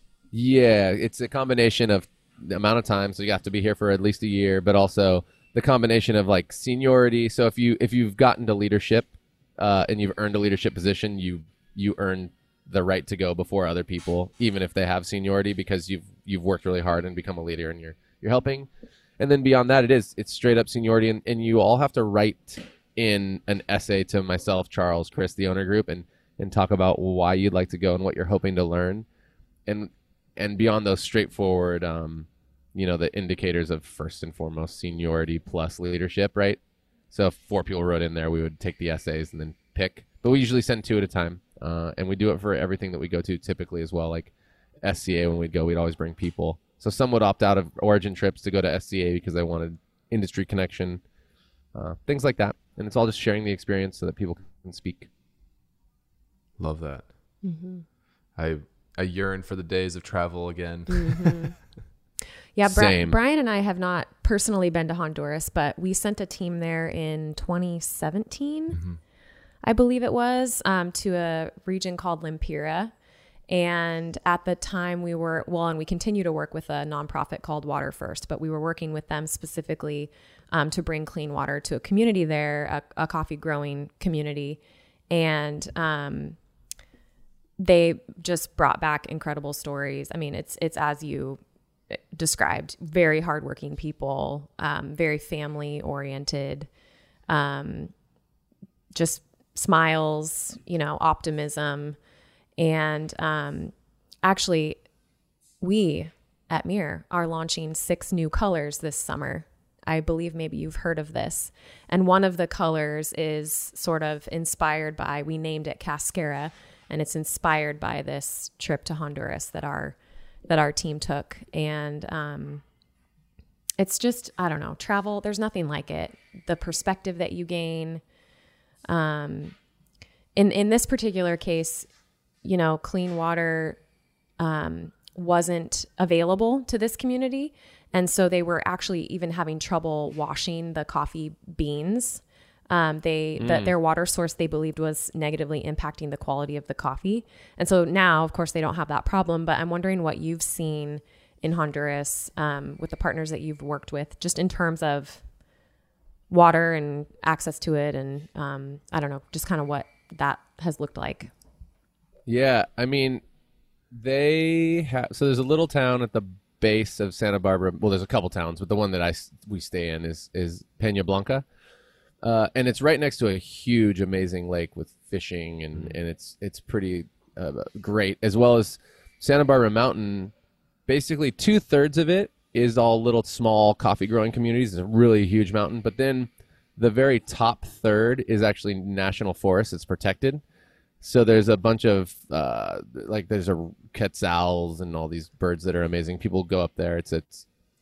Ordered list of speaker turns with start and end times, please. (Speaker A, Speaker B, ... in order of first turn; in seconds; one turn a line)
Speaker A: 0.3-18.7
Speaker A: 19.2-29.1
Speaker A: 29.7-36.6
Speaker A: 37.1-51.0
Speaker A: 51.7-55.1
Speaker B: 56.6-57.1
Speaker C: 57.4-57.9
Speaker B: 58.4-61.5
Speaker C: 60.9-61.5
Speaker C: 62.5-68.8
Speaker A: 62.6-63.2
Speaker B: 68.7-69.0
Speaker C: 69.6-72.9
Speaker C: 73.5-84.6
Speaker C: 85.1-86.4
Speaker C: 87.6-91.4
Speaker C: 92.0-96.7
Speaker C: 97.3-97.9
Speaker C: 99.0-102.0
Speaker C: 102.6-104.8
Speaker C: 105.6-120.0
Speaker C: 120.5-122.6
Speaker C: 123.8-128.0
Speaker C: 128.9-129.6
Speaker C: 130.4-131.9
Speaker C: 132.4-133.8
Speaker C: 134.4-155.2
Speaker A: 143.4-143.7
Speaker C: 156.3-161.3
Speaker A: 162.3-163.2
Speaker A: 163.9-171.4
Speaker A: 172.2-180.3
Speaker A: 180.9-190.4
Speaker A: 191.0-197.5